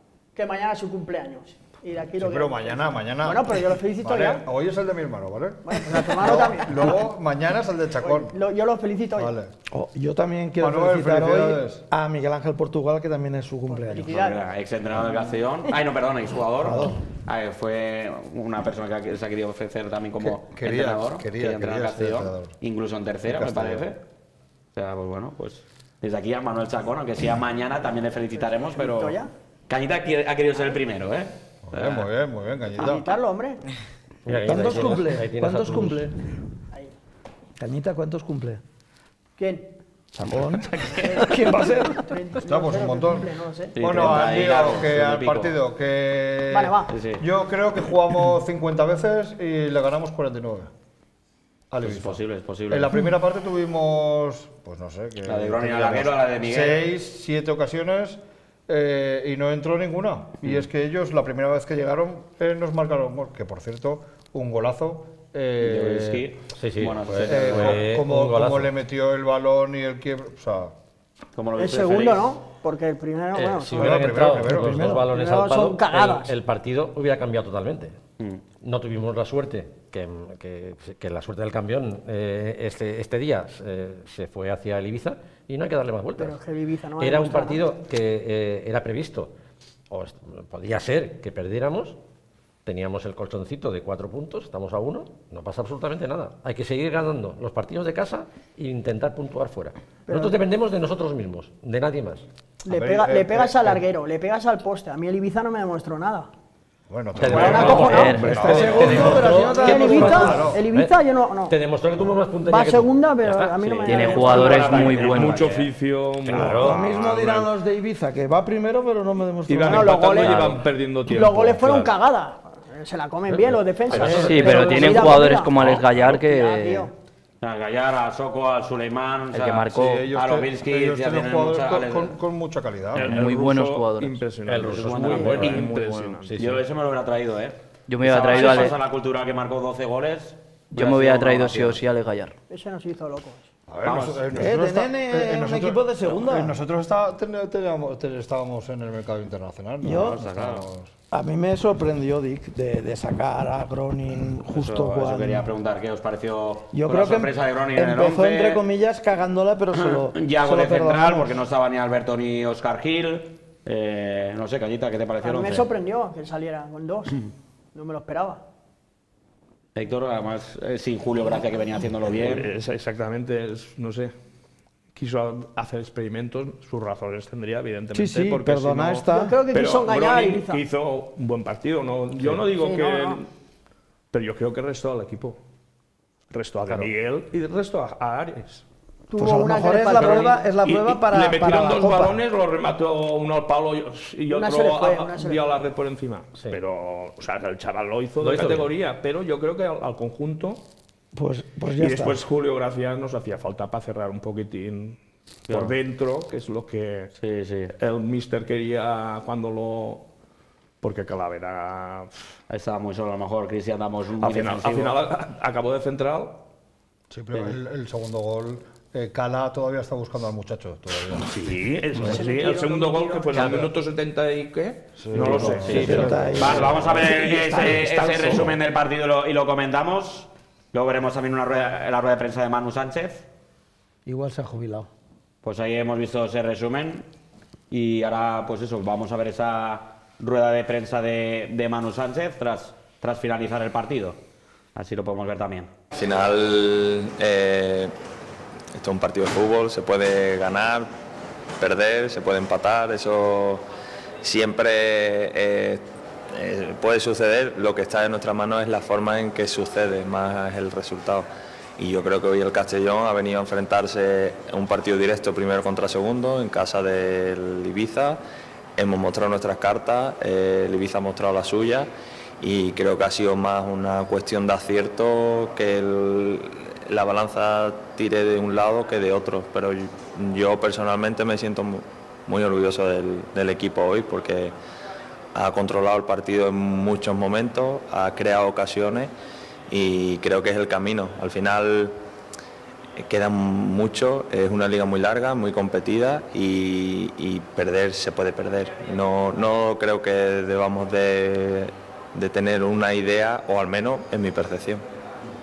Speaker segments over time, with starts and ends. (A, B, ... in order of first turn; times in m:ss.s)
0:00.4-0:04.5 A
0:02.2-0:08.4 B
0:05.6-0:07.1 A
0:08.0-0:09.3 A
0:09.2-0:09.5 B
0:09.7-0:14.2 C
0:10.6-0:11.8 B
0:13.7-0:14.4 A
0:14.0-0:24.0 D
0:16.6-0:17.0 C
0:20.2-0:22.6 B
0:23.3-0:23.9 B
0:24.7-0:32.1 D
0:28.4-0:29.3 A
0:31.7-0:33.1 B
0:32.7-0:33.6 A
0:34.2-0:36.1 E
0:34.4-0:36.2 C
0:37.6-0:38.6 C
0:39.4-0:39.7 A
0:40.1-0:42.2 C
0:40.6-0:41.3 D
0:41.0-0:41.4 A
0:42.0-0:43.8 A
0:42.4-0:50.7 B
0:43.8-0:45.6 D
0:46.5-0:46.9 A
0:46.9-0:47.3 D
0:51.7-1:06.3 B
0:51.8-0:53.0 D
0:55.2-0:56.9 D
1:05.6-1:07.8 D
1:06.5-1:08.7 E
1:07.2-1:10.7 B
1:11.4-1:12.4 D
1:11.6-1:14.1 A
1:13.4-1:18.0 E
1:13.7-1:14.9 B
1:14.5-1:15.1 C
1:15.0-1:16.4 A
1:18.6-1:26.4 E
1:26.2-1:27.7 A
1:27.0-1:29.3 E
1:29.9-1:32.0 E
1:32.6-1:42.2 E
1:40.1-1:40.4 A
1:42.6-1:43.8 B
1:42.7-1:46.3 A
1:46.9-1:50.6 B
1:47.2-1:51.0 E
1:47.3-1:48.2 A
1:47.5-1:50.5 C
1:47.8-1:48.4 F
1:49.3-1:51.6 A
1:51.5-1:53.5 E
1:52.5-1:55.0 A
1:53.6-1:55.7 D
1:53.8-1:55.5 F
1:55.0-1:57.5 G
1:56.2-1:56.8 E
1:56.5-2:00.0 C
1:59.5-2:01.9 G
1:59.7-2:06.9 A
1:59.8-2:00.6 E
2:01.2-2:01.9 E
2:03.4-2:06.0 G
2:03.9-2:05.2 E
2:04.1-2:06.9 F
2:07.4-2:12.2 D
2:09.3-2:10.1 F
2:09.8-2:13.2 B
2:13.0-2:16.4 G
2:13.0-2:14.2 F
2:14.5-2:16.6 E
2:14.7-2:15.7 D
2:16.3-2:21.8 D
2:17.9-2:18.8 F
2:20.7-2:22.4 F
2:22.5-2:23.5 A
2:23.7-2:30.9 B
2:23.8-2:24.4 D
2:24.4-2:26.6 C
2:29.8-2:30.2 C
2:30.0-2:30.7 D
2:31.1-2:35.5 C
2:34.5-2:38.6 D
2:36.7-2:41.4 C
2:39.8-2:45.7 D
2:45.2-2:48.4 A
2:49.8-2:52.5 D
2:52.2-2:54.1 G
2:55.0-3:03.3 G
2:57.9-2:59.4 C
2:59.1-3:00.6 A
3:02.5-3:03.2 A
3:04.1-3:05.4 G
3:06.3-3:08.6 G
3:09.1-3:10.4 A
3:09.2-3:12.2 C
3:09.9-3:20.6 G
3:14.3-3:15.5 A
3:18.2-3:18.7 E
3:21.2-3:22.2 C
3:21.8-3:27.1 G
3:25.5-3:25.8 D
3:27.2-3:27.7 D
3:27.8-3:30.1 G
3:30.8-3:32.4 G
3:32.5-3:35.0 D
3:34.2-3:36.4 G
3:37.1-3:41.4 B
3:37.3-3:37.6 D
3:41.1-3:48.6 G
3:42.0-3:43.7 A
3:43.4-3:43.7 E
3:45.0-3:46.8 B
3:45.4-3:53.3 D
3:45.6-3:48.1 C
3:54.1-3:54.9 C
3:55.4-3:57.1 D
3:57.7-4:04.2 D
4:04.8-4:05.7 D
4:05.9-4:07.9 H
4:08.7-4:10.9 H
4:11.6-4:13.6 H
4:14.2-4:28.2 H
4:28.8-4:31.9 H
4:32.4-4:44.5 H
4:45.4-4:49.1 H
4:49.7-4:52.0 H
4:53.0-5:04.8 H